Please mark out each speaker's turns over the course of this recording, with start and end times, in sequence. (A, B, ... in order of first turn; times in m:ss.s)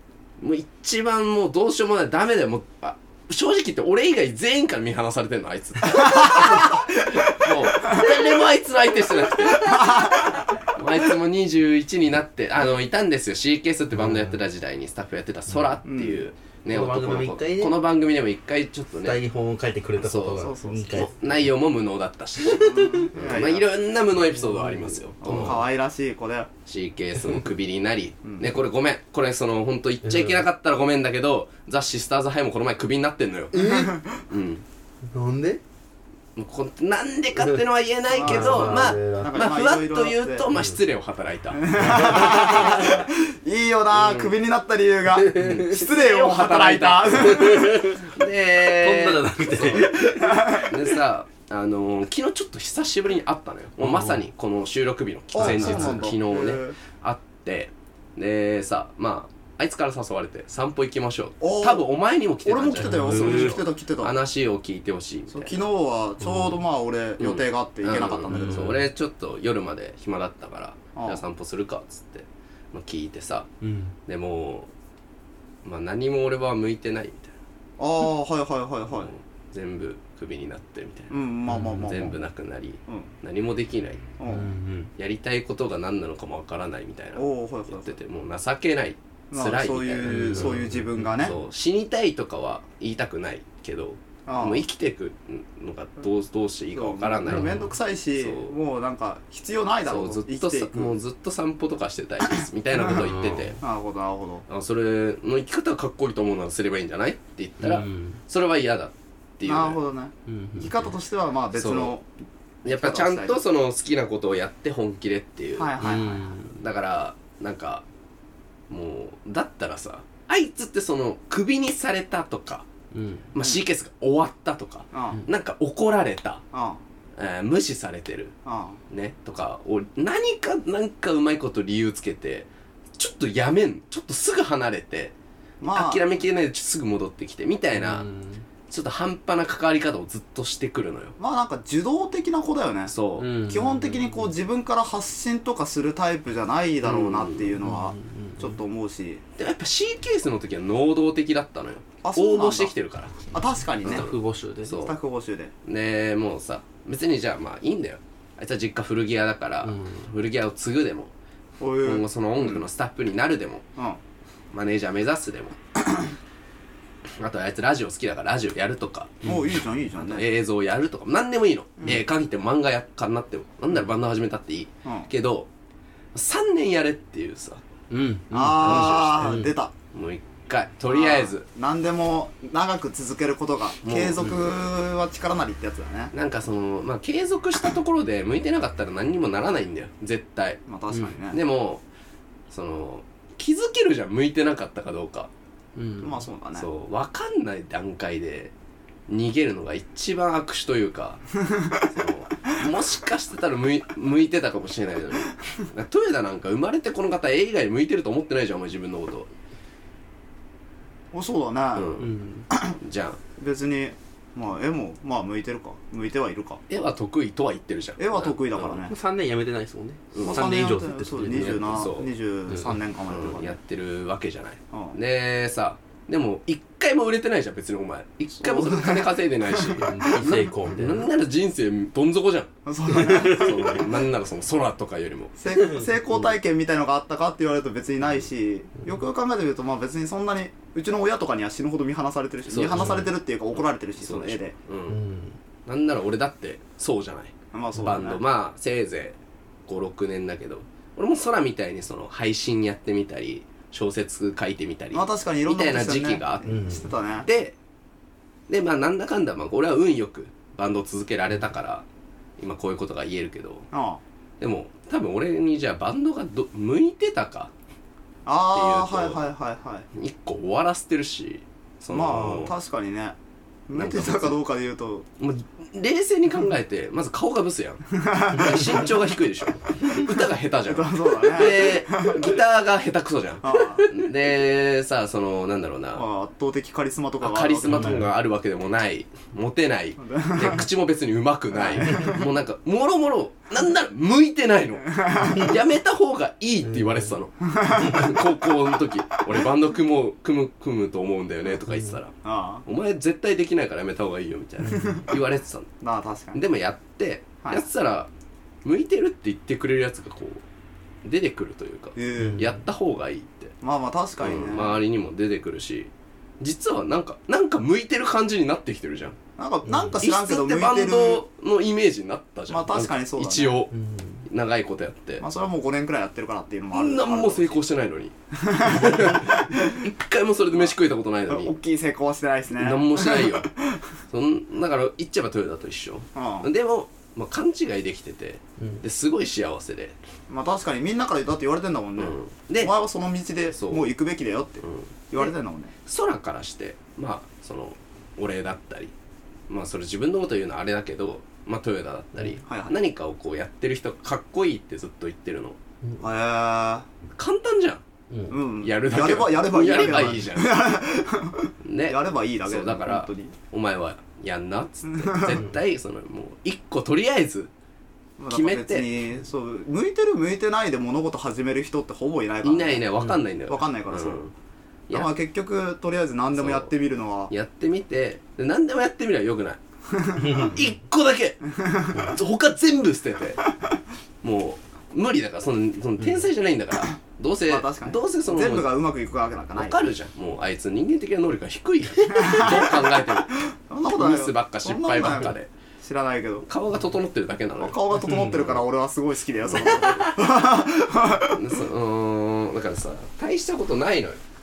0:00.4-0:19.2 A
0:06.0-0:06.9 B
0:09.6-0:10.3 B
0:13.9-0:14.4 C
0:15.8-0:16.2 B
0:16.7-0:17.8 C
0:19.0-0:21.5 C
0:20.0-0:25.6 A
0:20.4-0:21.0 B
0:22.4-0:23.1 C
0:22.5-0:23.7 B
0:24.2-0:25.6 C
0:25.2-0:26.5 B
0:26.7-0:33.6 A
0:30.0-0:30.4 C
0:33.5-0:34.0 C
0:33.6-0:34.1 B
0:34.3-0:34.6 A
0:35.1-0:35.6 C
0:36.4-0:42.4 A
0:38.1-0:40.5 B
0:38.2-0:39.4 C
0:40.5-0:40.8 C
0:41.5-0:47.9 B
0:41.8-0:43.0 C
0:43.9-0:44.4 A
0:45.2-0:45.7 C
0:45.4-1:05.6 A
0:47.2-0:50.6 C
0:49.8-0:50.7 B
0:53.8-0:54.2 C
0:55.3-0:56.8 B
0:55.4-0:56.1 C
1:01.4-1:01.9 B
1:02.4-1:04.2 B
1:02.8-1:03.6 C
1:05.3-1:08.8 B
1:06.2-1:06.6 C
1:07.2-1:13.5 A
1:08.3-1:08.8 C
1:11.0-1:11.2 B
1:13.6-1:14.0 C
1:14.1-1:14.7 A
1:15.6-1:17.3 A
1:17.8-1:19.1 B
1:18.9-1:21.2 A
1:21.1-1:22.2 B
1:21.5-1:21.9 C
1:21.8-1:24.0 A
1:24.2-1:24.5 B
1:24.3-1:24.9 C
1:25.0-1:30.6 A
1:27.2-1:27.9 B
1:29.3-1:31.4 B
1:30.0-1:31.3 C
1:31.2-1:37.6 A
1:34.3-1:34.6 B
1:36.8-1:41.0 B
1:37.3-1:37.7 C
1:38.2-1:38.6 A
1:39.9-1:43.6 A
1:42.8-1:43.5 C
1:43.6-1:44.4 B
1:44.5-1:49.8 A
1:47.6-1:48.2 C
1:49.4-1:52.1 B
1:50.3-1:51.0 C
1:51.5-1:52.0 A
1:52.6-1:55.8 A
1:52.6-1:53.4 B
1:55.6-1:56.4 B
1:55.8-1:56.6 C
1:56.5-1:57.8 A
1:58.7-2:02.7 A
2:02.9-2:03.3 C
2:03.3-2:06.4 A
2:04.9-2:05.2 B
2:06.5-2:06.8 B
2:07.2-2:08.3 A
2:08.4-2:08.8 B
2:08.9-2:15.2 A
2:15.6-2:16.0 B
2:15.7-2:18.1 A
2:17.8-2:18.4 C
2:18.7-2:21.2 A
2:21.2-2:22.9 B
2:22.9-2:23.3 A
2:23.2-2:24.3 C
2:23.5-2:29.2 B
2:26.8-2:27.6 A
2:27.6-2:28.6 C
2:29.4-2:33.1 A
2:32.0-2:32.7 B
2:33.3-2:34.1 B
2:33.8-2:34.8 C
2:34.6-2:35.0 A
2:34.7-2:35.5 B
2:35.6-2:41.1 A
2:39.6-2:40.0 C
2:41.6-2:42.7 B
2:41.8-2:43.6 A
2:44.5-2:45.6 A
2:47.2-2:49.2 A
2:49.2-2:49.6 C
2:49.2-2:50.2 B
2:50.0-2:55.5 A
2:56.1-2:57.6 A
2:57.9-2:59.5 C
2:58.3-2:59.7 B
2:58.6-2:59.3 A
2:59.9-3:01.5 A
3:00.9-3:06.1 B
3:03.8-3:04.4 A
3:06.1-3:10.6 A
3:10.7-3:11.4 B
3:11.3-3:11.8 A
3:12.5-3:15.3 A
3:15.8-3:16.2 C
3:16.0-3:16.7 B
3:16.6-3:18.5 A
3:19.1-3:21.2 A
3:21.8-3:29.3 A
3:31.1-3:31.9 B
3:31.8-3:33.2 A
3:32.0-3:32.5 C
3:33.4-3:36.6 B
3:36.7-3:38.7 A
3:38.0-3:38.9 B
3:38.7-3:41.9 C
3:40.1-3:40.5 A
3:40.2-3:43.6 B
3:41.7-3:42.1 A
3:42.5-3:42.8 C
3:43.1-3:55.4 A
3:44.7-3:45.0 B
3:48.4-3:49.8 B
3:49.6-3:51.1 C
3:52.7-3:53.8 B
3:53.1-3:53.5 C
3:55.4-4:04.5 B
3:55.6-3:55.9 C
4:02.5-4:03.0 A
4:02.7-4:03.1 C
4:04.0-4:05.0 A
4:04.9-4:05.4 C
4:05.7-4:16.6 A
4:07.5-4:08.2 B
4:14.9-4:17.3 B
4:16.5-4:16.9 C
4:17.2-4:17.6 A
4:18.5-4:21.9 A
4:22.4-4:23.7 A
4:23.7-4:24.0 B
4:24.4-4:27.5 A
4:28.3-4:29.9 B
4:28.5-4:29.2 A
4:29.9-4:32.5 A
4:31.9-4:33.2 B
4:33.7-4:35.1 B
4:33.8-4:34.4 A
4:35.2-4:46.0 A
4:37.9-4:38.9 B
4:40.7-4:42.3 B
4:43.4-4:44.0 B
4:46.0-4:48.0 B
4:47.2-5:05.7 A
4:47.7-4:48.1 C
4:50.0-4:50.6 B
4:51.5-4:52.3 B
4:55.0-4:55.5 B
4:56.7-4:57.1 C
4:57.6-4:58.0 B
5:01.7-5:02.0 C
5:02.2-5:02.6 B
5:04.8-5:05.0 B
5:05.8-5:06.4 B
5:06.3-5:08.1 A
5:08.6-5:10.4 A
5:11.0-5:13.5 A
5:12.0-5:12.5 B
5:12.2-5:12.6 C
5:13.6-5:14.8 B
5:14.2-5:19.2 A
5:19.4-5:21.2 B
5:19.7-5:20.0 C
5:20.0-5:23.7 A
5:22.5-5:23.6 B
5:23.7-5:24.3 C
5:24.3-5:25.2 A
5:25.2-5:27.6 B
5:26.7-5:31.5 A
5:28.4-5:29.9 B
5:31.3-5:33.8 B
5:32.6-5:33.5 A
5:34.1-5:40.0 A
5:36.2-5:36.5 B
5:40.3-5:45.7 B
5:42.0-5:42.7 A
5:43.5-5:43.9 A
5:44.6-5:45.3 A
5:45.9-5:48.9 A
5:49.5-5:55.6 A
5:52.4-5:52.8 B
5:56.0-5:56.9 B
5:57.2-5:57.8 A
5:58.1-5:58.4 C
5:58.3-6:03.3 B
5:58.6-6:00.6 A
6:01.6-6:07.5 A
6:04.9-6:05.4 B
6:08.2-6:12.9 B
6:08.3-6:09.0 A
6:12.4-6:14.3 A
6:13.5-6:14.2 B
6:14.9-6:17.3 B
6:16.3-6:16.7 A
6:17.3-6:19.6 A
6:20.0-6:20.5 B
6:20.2-6:20.6 C
6:20.3-6:23.4 A
6:21.6-6:22.0 B
6:24.2-6:28.7 A
6:27.5-6:29.8 B
6:29.5-6:33.4 A
6:32.1-6:36.5 B
6:34.0-6:35.5 A
6:36.5-6:38.6 A
6:37.6-6:41.4 B
6:39.5-6:40.2 A
6:41.2-6:44.2 A